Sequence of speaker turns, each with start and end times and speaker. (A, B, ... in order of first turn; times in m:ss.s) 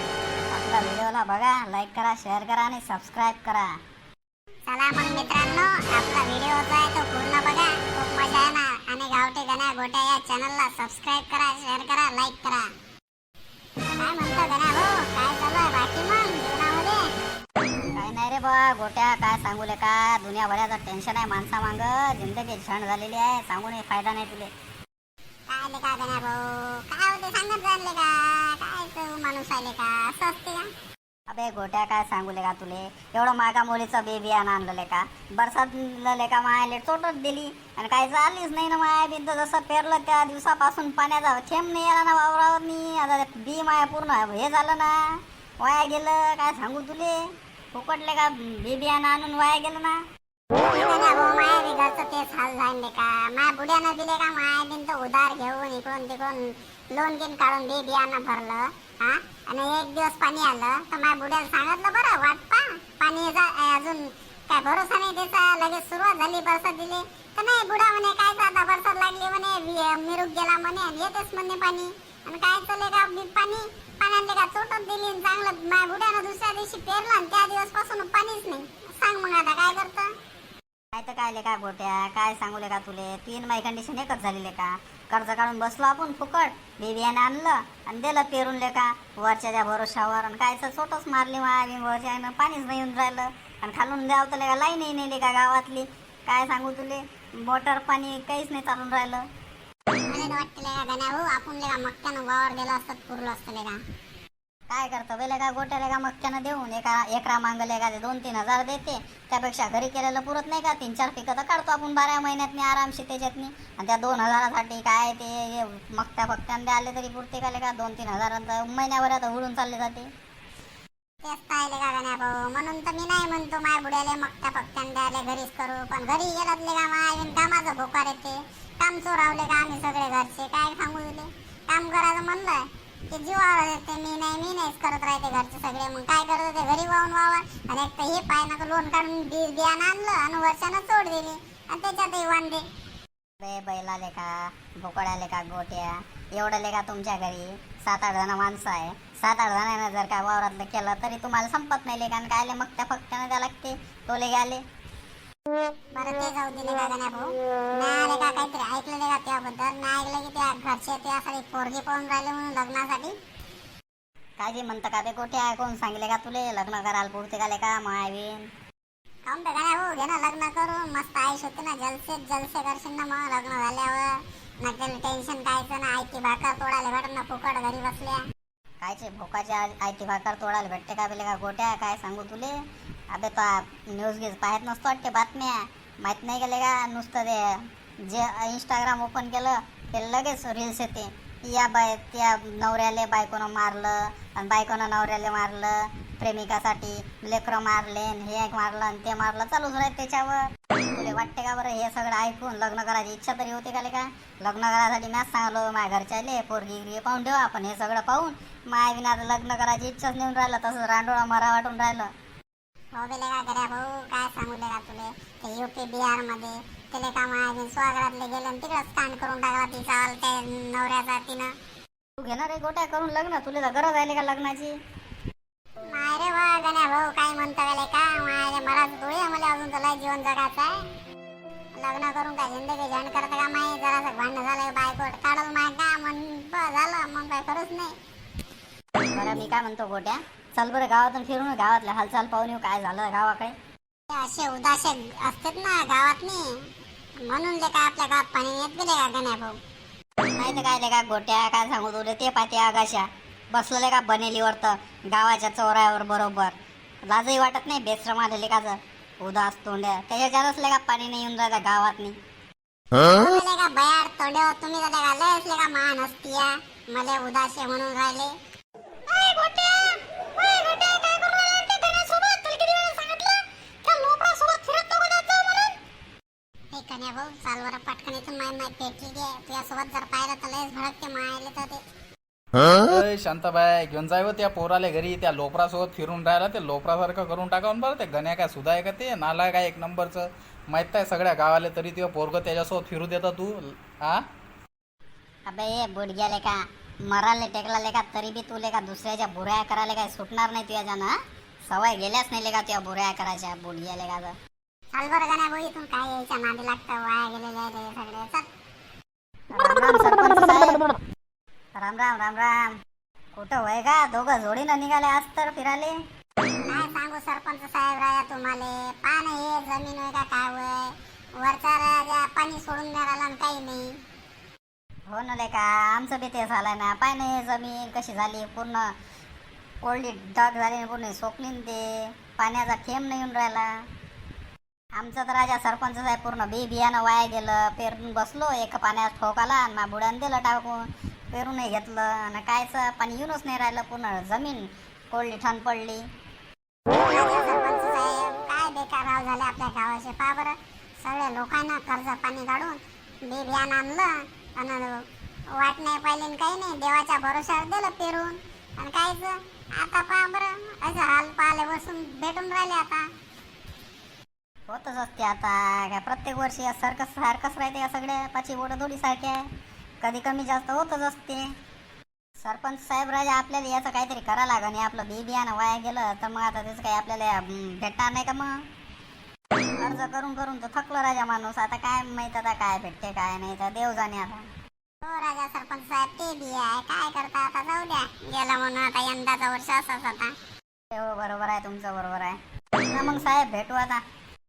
0:00.5-0:03.7 A
0:04.7-0:12.7 B
0:14.0-0:17.1 B
0:17.9-0:24.5 A
0:25.5-0:30.7 B
0:31.3-0:47.2 A
0:47.7-0:50.0 A
0:50.6-1:20.1 B
1:20.9-1:39.2 A
1:40.1-1:43.8 B
1:44.7-2:00.1 A
2:01.2-2:22.6 B
2:23.4-2:34.6 A
2:35.9-2:43.1 B
2:44.4-2:48.4 A
2:49.2-2:58.2 B
2:58.8-3:02.6 A
3:03.1-3:32.1 A
3:32.9-3:41.5 B
3:42.2-3:44.7 A
3:45.8-3:50.8 B
3:51.7-3:57.9 B
3:59.1-4:03.5 A
4:04.1-4:06.6 B
4:07.2-4:09.6 B
4:10.4-4:16.5 A
4:17.1-4:22.1 A
4:23.0-4:28.3 B
4:29.1-4:30.0 B
4:30.6-4:33.2 B
4:33.9-4:34.9 B
4:36.7-4:41.8 B
4:42.6-4:54.2 C
4:55.5-5:01.2 A
5:01.7-5:04.3 A
5:04.9-5:08.5 B
5:09.5-5:10.9 A
5:11.8-5:12.7 A
5:13.4-5:15.9 A
5:16.6-5:23.9 B
5:25.1-5:28.9 A
5:29.8-5:33.7 A
5:35.0-5:46.0 A
5:46.9-6:03.1 B
6:04.7-6:09.4 A
6:10.0-6:11.5 A
6:12.4-6:18.6 A
6:19.8-6:24.4 A
6:25.0-6:30.3 B
6:30.9-6:32.4 A
6:32.9-6:34.0 A